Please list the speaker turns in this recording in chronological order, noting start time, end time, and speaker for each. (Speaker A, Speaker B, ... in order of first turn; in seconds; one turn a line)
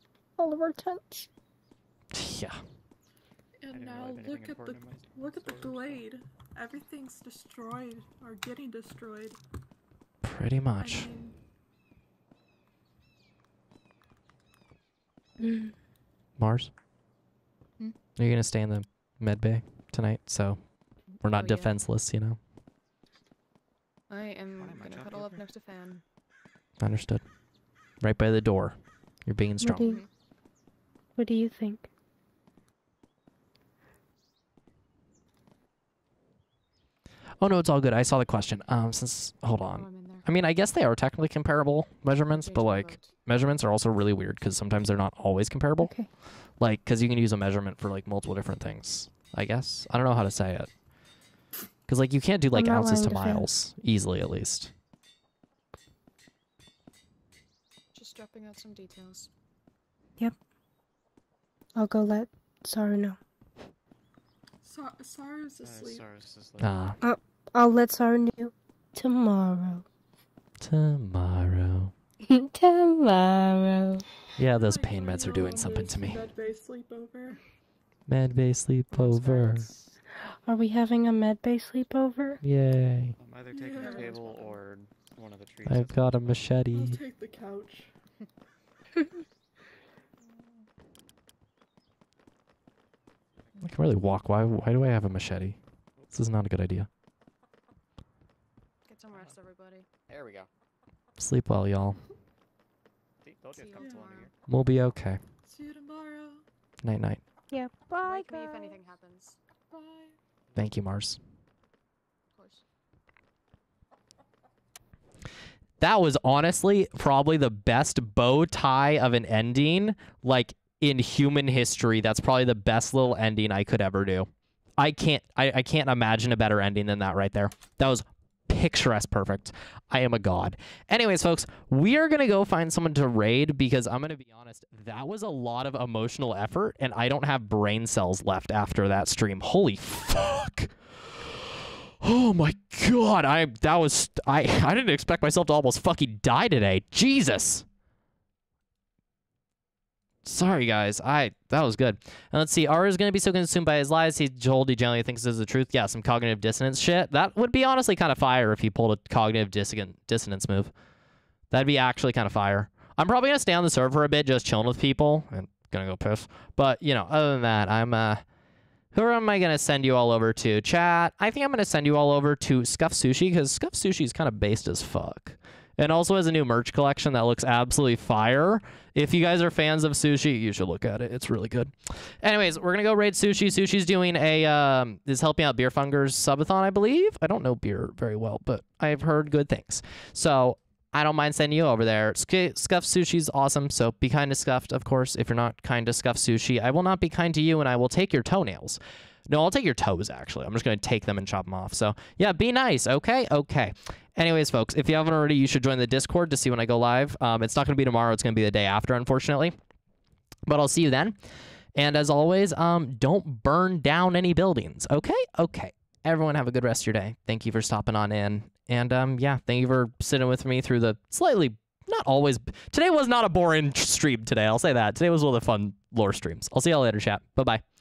Speaker A: 0.4-1.3
Speaker B: 2.1-2.6
Speaker C: 3.6-9.4
Speaker D: 3.7-6.1
Speaker B: 10.2-11.1
Speaker C: 10.8-11.3
Speaker A: 15.4-15.7
Speaker B: 16.4-16.7
Speaker B: 18.2-22.4
Speaker E: 21.3-21.7
Speaker E: 24.1-26.0
Speaker D: 24.6-25.2
Speaker B: 26.8-27.2
Speaker B: 28.0-30.0
Speaker A: 29.6-30.0
Speaker A: 31.2-31.9
Speaker B: 37.4-50.7
Speaker E: 39.7-40.3
Speaker E: 42.4-43.1
Speaker A: 45.8-46.1
Speaker B: 51.9-54.7
Speaker A: 52.5-53.5
Speaker E: 57.9-59.3
Speaker A: 61.8-63.2
Speaker C: 64.6-66.1
Speaker D: 65.6-67.0
Speaker B: 66.6-67.0
Speaker A: 67.0-69.8
Speaker B: 70.6-71.9
Speaker A: 72.2-74.0
Speaker B: 74.4-76.2
Speaker C: 74.4-77.4
Speaker B: 78.1-79.7
Speaker E: 79.0-79.6
Speaker A: 80.3-82.4
Speaker B: 82.4-83.1
Speaker D: 83.2-86.5
Speaker C: 83.5-84.5
Speaker B: 85.7-87.0
Speaker C: 86.7-87.9
Speaker B: 93.6-95.6
Speaker D: 96.0-96.3
Speaker B: 96.1-96.9
Speaker E: 98.9-99.9
Speaker D: 100.1-100.5
Speaker B: 101.2-102.0
Speaker D: 103.2-104.3
Speaker E: 103.5-104.3
Speaker C: 103.8-104.1
Speaker B: 104.5-105.2
Speaker C: 105.5-106.4
Speaker B: 106.8-107.2
Speaker A: 107.5-108.7
Speaker E: 108.0-109.4
Speaker C: 109.7-110.1
Speaker B: 110.6-111.2
Speaker E: 112.3-112.6
Speaker B: 115.8-140.7
Speaker B: 142.0-147.7
Speaker B: 150.2-160.7
Speaker B: 161.5-168.2
Speaker B: 168.9-209.6
Speaker B: 210.5-211.2
Speaker B: 211.8-227.6